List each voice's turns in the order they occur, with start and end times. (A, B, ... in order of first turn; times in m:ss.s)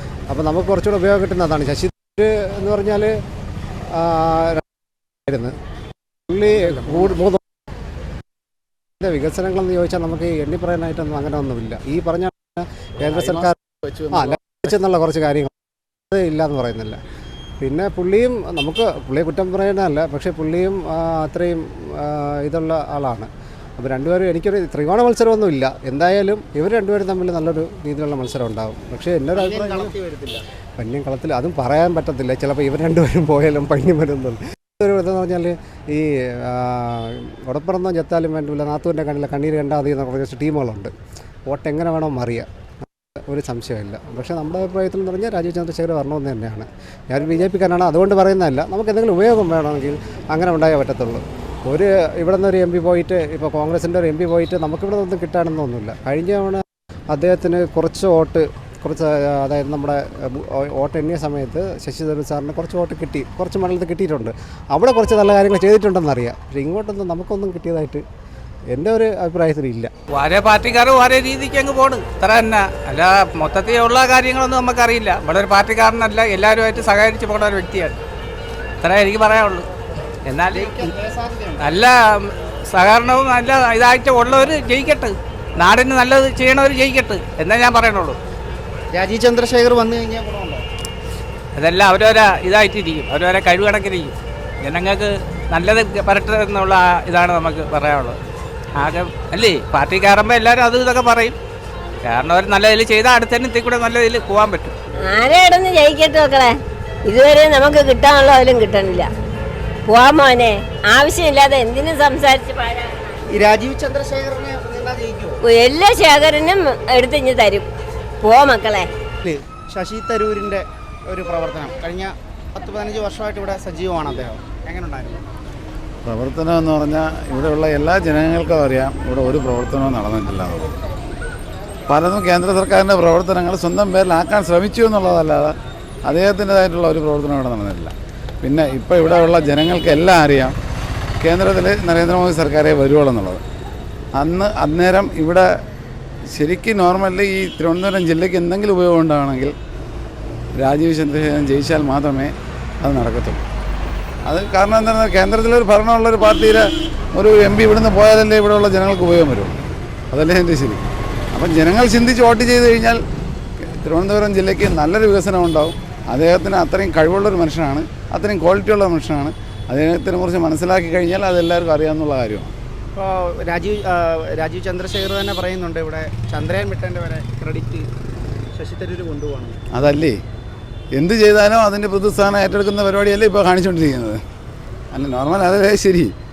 0:00.3-0:03.1 A
0:03.9-0:04.6 A
0:05.3-0:05.5 A
0:06.3-0:07.4 A
0:06.5-0:07.1 B
0:09.0-0:13.6 A
0:13.0-0:14.6 B
0:14.1-0:15.5 A
0:16.1-0:17.0 A
0:17.6-0:29.9 A
0:29.3-0:30.4 C
0:30.8-0:40.9 A
0:41.5-0:42.5 A
0:43.3-1:08.0 A
1:08.7-1:09.9 A
1:10.1-1:18.0 D
1:18.8-1:19.6 D
1:20.5-1:21.8 C
1:21.8-1:28.2 D
1:28.9-1:30.6 C
1:31.6-1:34.1 D
1:34.6-1:38.2 D
1:38.8-1:41.3 D
1:42.1-1:44.7 D
1:45.0-1:49.1 E
1:49.9-1:53.1 E
1:53.3-1:55.4 C
1:55.4-1:57.7 E
1:58.2-1:58.9 E
1:59.2-2:05.2 C
2:06.0-2:10.7 B
2:11.9-2:20.6 B
2:21.2-2:23.4 B
2:24.1-2:25.5 B
2:26.3-2:29.5 B
2:30.6-2:33.4 B
2:34.2-2:39.5 B
2:40.1-2:43.0 B
2:43.6-2:52.5 B
2:52.9-2:57.9 C
2:58.5-2:59.6 C
2:59.7-3:00.2 B
3:00.9-3:04.2 B
3:04.9-3:06.1 B